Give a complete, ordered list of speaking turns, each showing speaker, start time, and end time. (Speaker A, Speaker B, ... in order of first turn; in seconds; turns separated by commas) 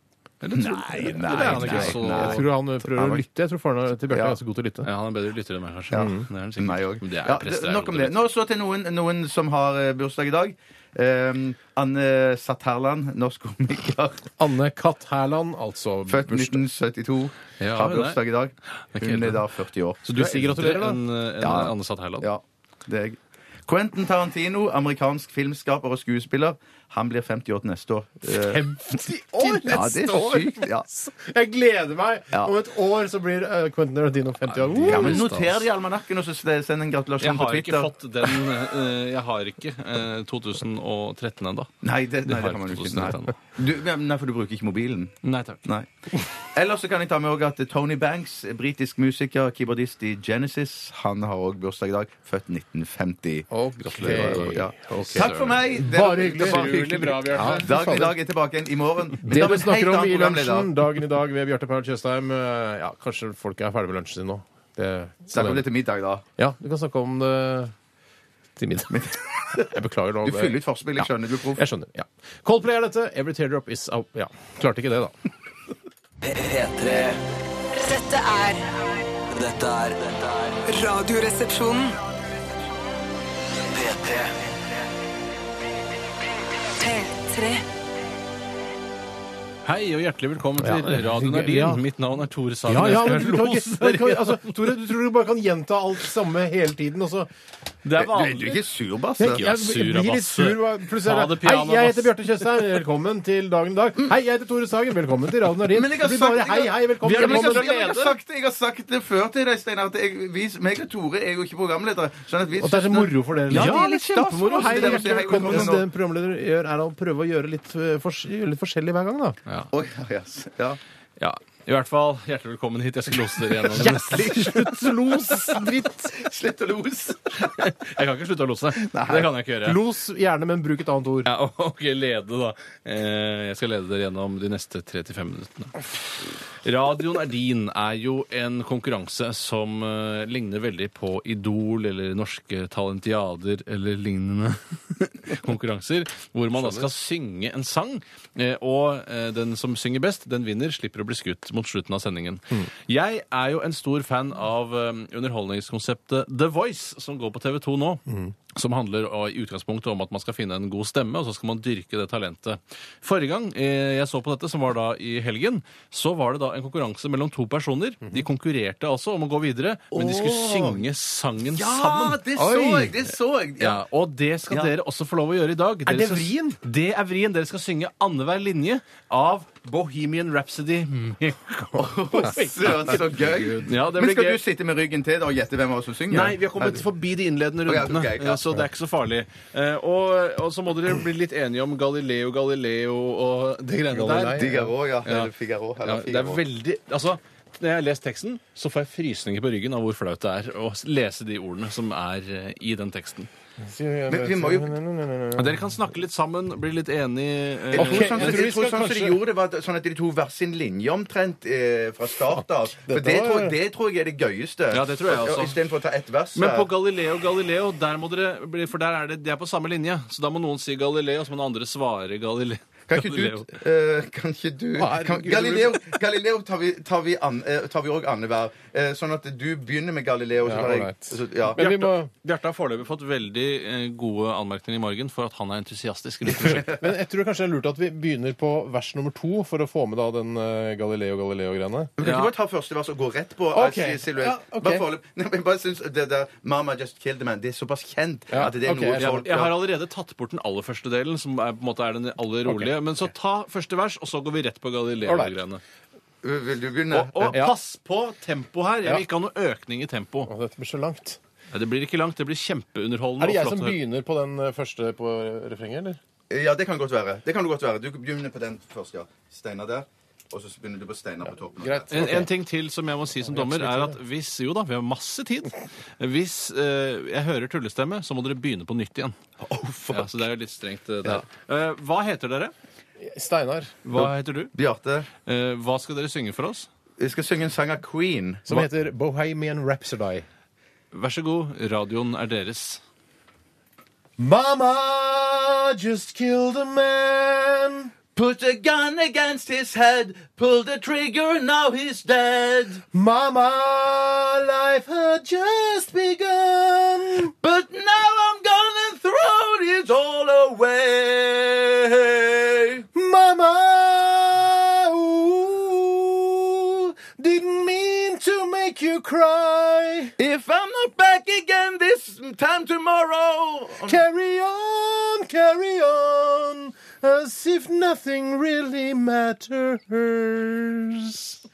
Speaker A: 0.4-2.5, Speaker B: 0.6-3.2, Speaker C: 1.3-4.9, Speaker B: 4.1-4.3, Speaker A: 4.8-8.1, Speaker B: 5.9-14.3, Speaker C: 5.9-6.2, Speaker C: 14.4-16.6, Speaker B: 16.1-20.8, Speaker A: 17.6-18.2, Speaker A: 18.9-19.4, Speaker A: 20.0-22.3, Speaker C: 20.1-21.0, Speaker B: 21.4-30.9, Speaker C: 28.2-35.3, Speaker A: 34.5-35.6, Speaker B: 34.8-38.3, Speaker A: 37.2-41.7, Speaker B: 41.8-45.9, Speaker A: 42.2-43.3, Speaker A: 45.2-45.6, Speaker B: 46.4-60.7, Speaker C: 53.5-58.1, Speaker A: 53.9-57.7, Speaker C: 59.2-65.7, Speaker B: 65.3-66.2, Speaker C: 66.4-67.7, Speaker C: 68.5-75.1, Speaker B: 68.9-71.6, Speaker D: 76.2-77.2, Speaker E: 77.7-78.7, Speaker D: 79.3-80.6, Speaker E: 80.7-82.0, Speaker D: 83.6-84.5, Speaker E: 86.7-87.6, Speaker A: 89.6-94.8, Speaker C: 90.6-91.8, Speaker C: 92.7-97.3, Speaker A: 97.8-98.6, Speaker B: 98.0-99.4, Speaker C: 99.2-108.0, Speaker A: 99.2-102.6, Speaker B: 105.7-115.8, Speaker A: 107.0-108.1, Speaker C: 112.6-119.4, Speaker A: 113.5-115.6, Speaker B: 119.7-120.8, Speaker A: 121.2-124.9, Speaker C: 123.7-126.1, Speaker B: 125.5-127.6, Speaker A: 127.3-129.8, Speaker B: 128.9-129.3, Speaker C: 129.6-131.3, Speaker A: 131.2-135.8, Speaker A: 136.6-172.3, Speaker C: 146.5-146.9, Speaker C: 158.1-158.3, Speaker B: 169.9-170.8, Speaker B: 171.5-173.8, Speaker C: 172.3-173.0, Speaker A: 173.6-181.8, Speaker C: 175.8-176.6, Speaker C: 181.7-183.7, Speaker B: 181.8-186.8, Speaker A: 183.6-184.4, Speaker A: 186.1-194.4, Speaker B: 187.6-188.5, Speaker C: 193.9-194.7, Speaker B: 194.2-196.4, Speaker A: 195.0-195.3, Speaker A: 195.8-203.3, Speaker C: 203.6-205.6, Speaker B: 204.1-204.7, Speaker A: 205.3-208.4, Speaker B: 207.7-216.7, Speaker C: 207.7-209.2, Speaker C: 212.3-213.6, Speaker A: 214.7-215.6, Speaker A: 216.3-223.5, Speaker B: 222.9-231.6, Speaker C: 224.8-225.8, Speaker C: 230.4-232.1, Speaker A: 231.6-236.8, Speaker C: 236.4-242.0, Speaker B: 242.0-249.5, Speaker A: 242.0-242.3, Speaker C: 243.5-244.8, Speaker C: 248.3-249.4, Speaker A: 248.9-255.6, Speaker C: 252.4-252.7, Speaker C: 255.0-255.3, Speaker B: 256.2-257.4, Speaker A: 256.9-260.3, Speaker C: 257.3-257.5, Speaker C: 260.3-261.2, Speaker A: 261.5-263.8, Speaker C: 263.2-266.0, Speaker B: 266.3-272.3, Speaker C: 271.6-272.3, Speaker A: 271.9-279.1, Speaker C: 273.2-273.9, Speaker B: 279.4-280.1, Speaker A: 279.9-282.5, Speaker C: 283.0-283.7, Speaker A: 283.8-284.5, Speaker B: 283.9-285.1, Speaker A: 285.2-286.7, Speaker B: 287.0-288.7, Speaker C: 288.5-290.2, Speaker A: 290.9-292.8, Speaker C: 294.2-297.9, Speaker B: 298.1-302.8, Speaker C: 302.9-307.3, Speaker B: 307.4-312.8, Speaker C: 312.9-320.1, Speaker B: 320.2-324.0, Speaker C: 323.8-331.4